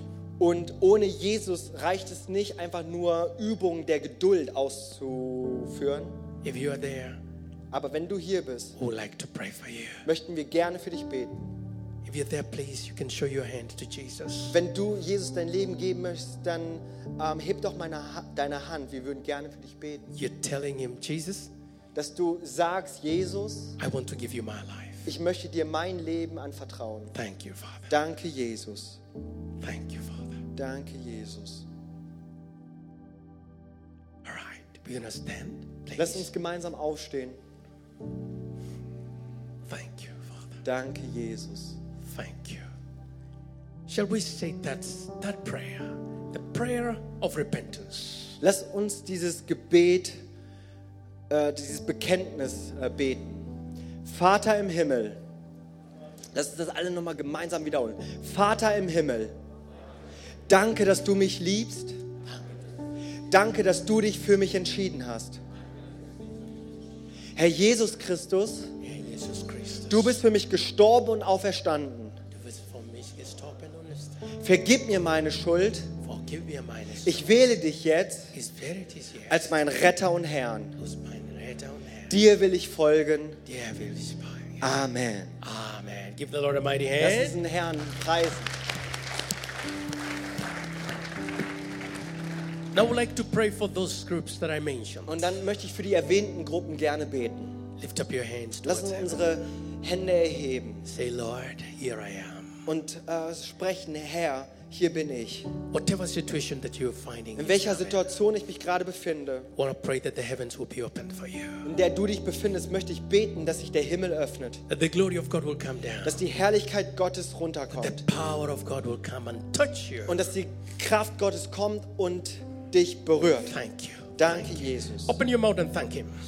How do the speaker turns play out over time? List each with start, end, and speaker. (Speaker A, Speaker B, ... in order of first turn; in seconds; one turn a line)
Speaker A: 0.4-6.2
Speaker B: 6.4-7.2
Speaker A: 7.7-8.8
Speaker B: 8.8-10.1
Speaker A: 10.1-11.5
Speaker B: 12.1-14.6
Speaker A: 14.5-20.1
Speaker B: 20.1-21.5
Speaker A: 21.9-23.8
Speaker B: 23.8-25.1
Speaker A: 25.1-27.1
Speaker B: 27.1-27.9
Speaker A: 27.9-29.0
Speaker B: 29.6-30.4
Speaker A: 30.6-31.7
Speaker B: 34.2-36.3
Speaker A: 36.0-37.4
Speaker B: 39.7-40.6
Speaker A: 40.6-41.8
Speaker B: 42.0-42.6
Speaker B: 43.9-48.4
Speaker A: 48.4-50.2
Speaker A: 51.3-53.5
Speaker A: 54.0-55.2
Speaker A: 56.3-59.4
Speaker A: 60.5-62.0
Speaker A: 63.3-65.4
Speaker A: 67.4-68.7
Speaker B: 68.8-70.2
Speaker A: 69.9-72.2
Speaker B: 72.3-74.3
Speaker A: 74.4-75.9
Speaker B: 76.0-77.3
Speaker A: 77.0-78.3
Speaker B: 78.3-79.5
Speaker A: 79.3-80.8
Speaker B: 80.8-82.2
Speaker A: 82.1-83.4
Speaker B: 83.5-84.7
Speaker A: 84.6-85.4
Speaker B: 85.4-87.4
Speaker A: 87.0-88.5
Speaker B: 92.7-95.3
Speaker A: 95.1-97.6
Speaker B: 97.8-99.3
Speaker A: 98.7-100.8
Speaker B: 100.8-102.7
Speaker A: 102.7-105.5
Speaker B: 105.7-108.0
Speaker A: 107.4-109.5
Speaker B: 109.6-111.7
Speaker A: 111.6-114.6
Speaker B: 114.7-116.2
Speaker A: 116.0-118.0
Speaker B: 117.8-120.2
Speaker A: 120.1-123.6
Speaker B: 123.5-126.1
Speaker A: 124.2-125.2